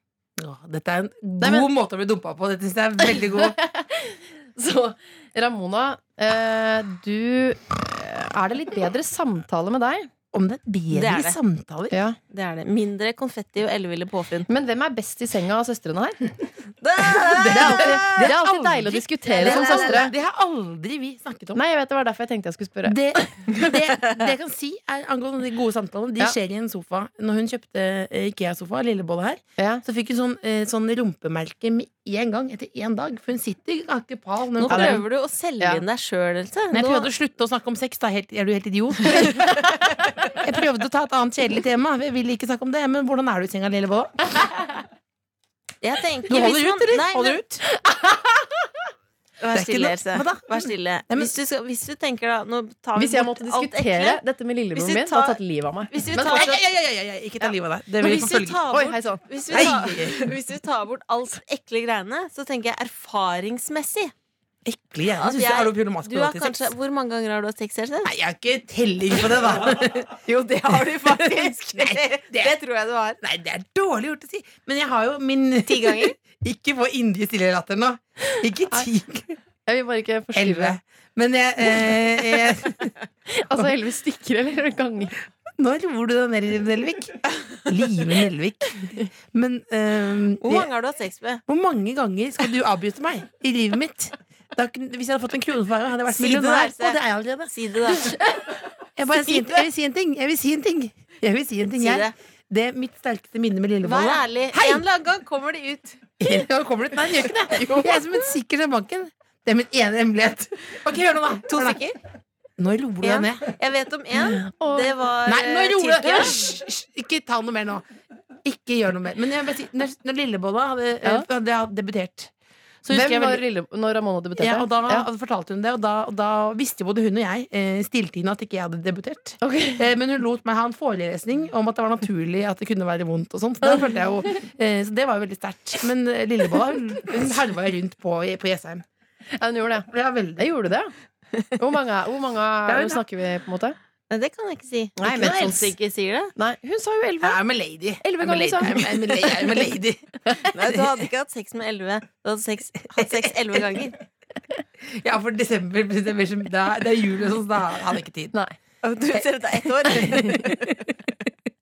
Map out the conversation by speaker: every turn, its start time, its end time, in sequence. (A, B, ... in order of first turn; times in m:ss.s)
0:00.4-0:03.6 A
0:01.4-0:01.7 B
0:03.1-0:10.1 B
0:10.3-0:12.0 A
0:10.9-0:11.4 C
0:11.9-0:12.2 B
0:12.3-0:14.5 C
0:14.5-0:16.3 B
0:16.8-0:18.4 C
0:17.2-0:21.6 A
0:17.5-0:20.1 B
0:19.3-0:20.0 C
0:21.5-0:23.6 B
0:22.9-0:35.0 A
0:29.6-0:29.8 B
0:34.6-0:37.1 C
0:34.7-0:35.0 B
0:36.7-0:39.6 A
0:40.4-0:44.3 A
0:45.8-0:47.5 C
0:46.3-0:47.6 A
0:47.7-0:48.7 B
0:49.4-0:54.2 C
0:49.5-0:51.3 A
0:53.0-0:56.5 B
0:54.8-0:55.4 C
0:55.9-0:56.6 C
0:56.2-0:58.6 A
0:58.0-1:04.1 C
0:58.7-0:59.2 B
0:59.5-1:00.4 A
1:04.6-1:06.7 A
1:05.2-1:08.1 C
1:08.0-1:10.2 A
1:09.7-1:13.2 C
1:10.8-1:12.6 A
1:13.2-1:19.4 A
1:15.6-1:16.2 C
1:19.7-1:20.8 B
1:20.3-1:22.9 A
1:23.3-1:25.2 B
1:25.6-1:30.7 A
1:30.4-1:31.4 C
1:31.5-1:37.5 A
1:36.1-1:38.3 C
1:39.0-1:44.8 A
1:39.3-1:39.6 C
1:41.8-1:42.1 C
1:43.8-1:46.1 C
1:46.2-1:51.8 A
1:51.5-1:52.0 C
1:52.6-1:53.4 A
1:53.0-1:56.5 C
1:54.2-1:54.9 B
1:55.2-1:57.9 A
1:58.4-2:02.3 A
2:02.8-2:03.4 A
2:02.9-2:05.1 B
2:04.4-2:18.8 A
2:09.4-2:09.8 B
2:19.4-2:20.9 B
2:19.9-2:20.5 A
2:21.6-2:23.8 B
2:22.7-2:23.0 A
2:24.1-2:26.3 C
2:25.0-2:25.7 B
2:26.4-2:27.4 B
2:27.2-2:30.9 A
2:28.0-2:29.5 B
2:30.5-2:34.0 C
2:33.0-2:33.8 A
2:34.8-2:38.4 A
2:38.8-2:40.8 C
2:39.9-2:40.5 A